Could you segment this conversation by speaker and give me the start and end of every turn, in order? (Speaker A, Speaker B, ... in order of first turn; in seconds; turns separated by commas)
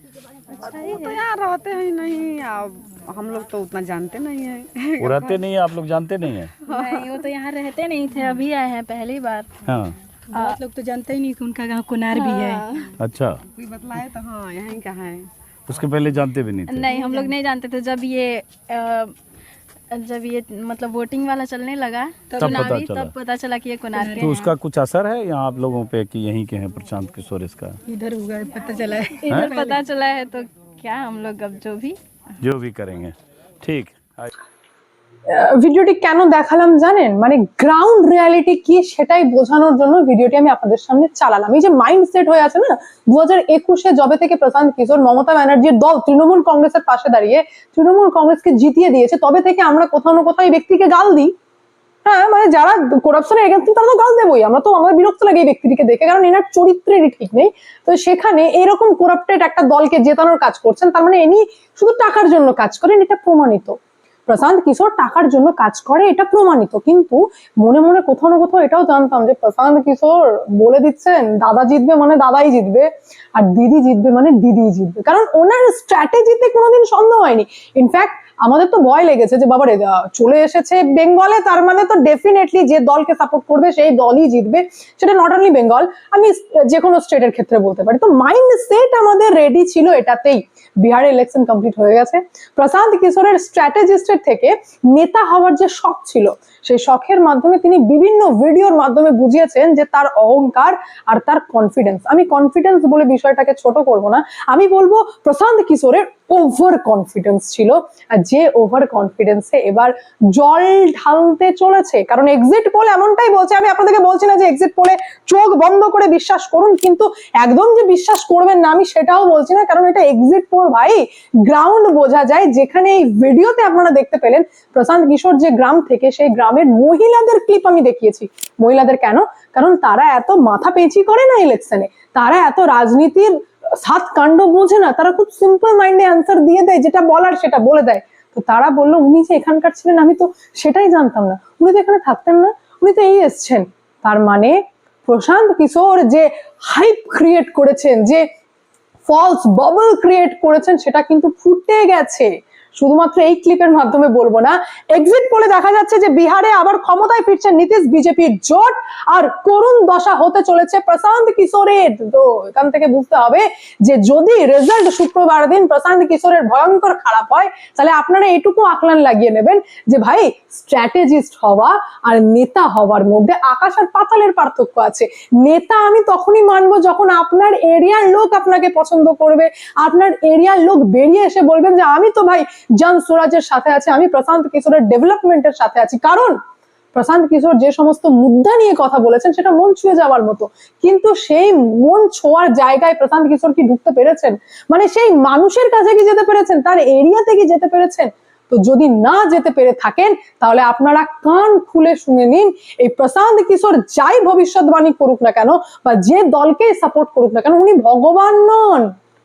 Speaker A: 0.6-1.2, Speaker B: 0.6-5.4, Speaker C: 5.0-6.5, Speaker B: 6.7-7.1, Speaker A: 6.7-9.5, Speaker C: 9.7-9.9, Speaker D: 10.3-12.7, Speaker A: 12.1-12.9, Speaker C: 13.0-13.4, Speaker B: 13.5-15.3, Speaker C: 15.7-16.9, Speaker A: 16.7-19.1, Speaker B: 16.9-17.3, Speaker A: 19.9-24.4, Speaker C: 22.4-23.1, Speaker D: 24.0-24.3, Speaker C: 24.2-27.8, Speaker D: 27.9-29.7, Speaker A: 29.2-32.0, Speaker C: 32.4-34.3, Speaker E: 35.3-51.3, Speaker E: 52.0-148.2, Speaker E: 149.1-186.4, Speaker E: 186.9-208.9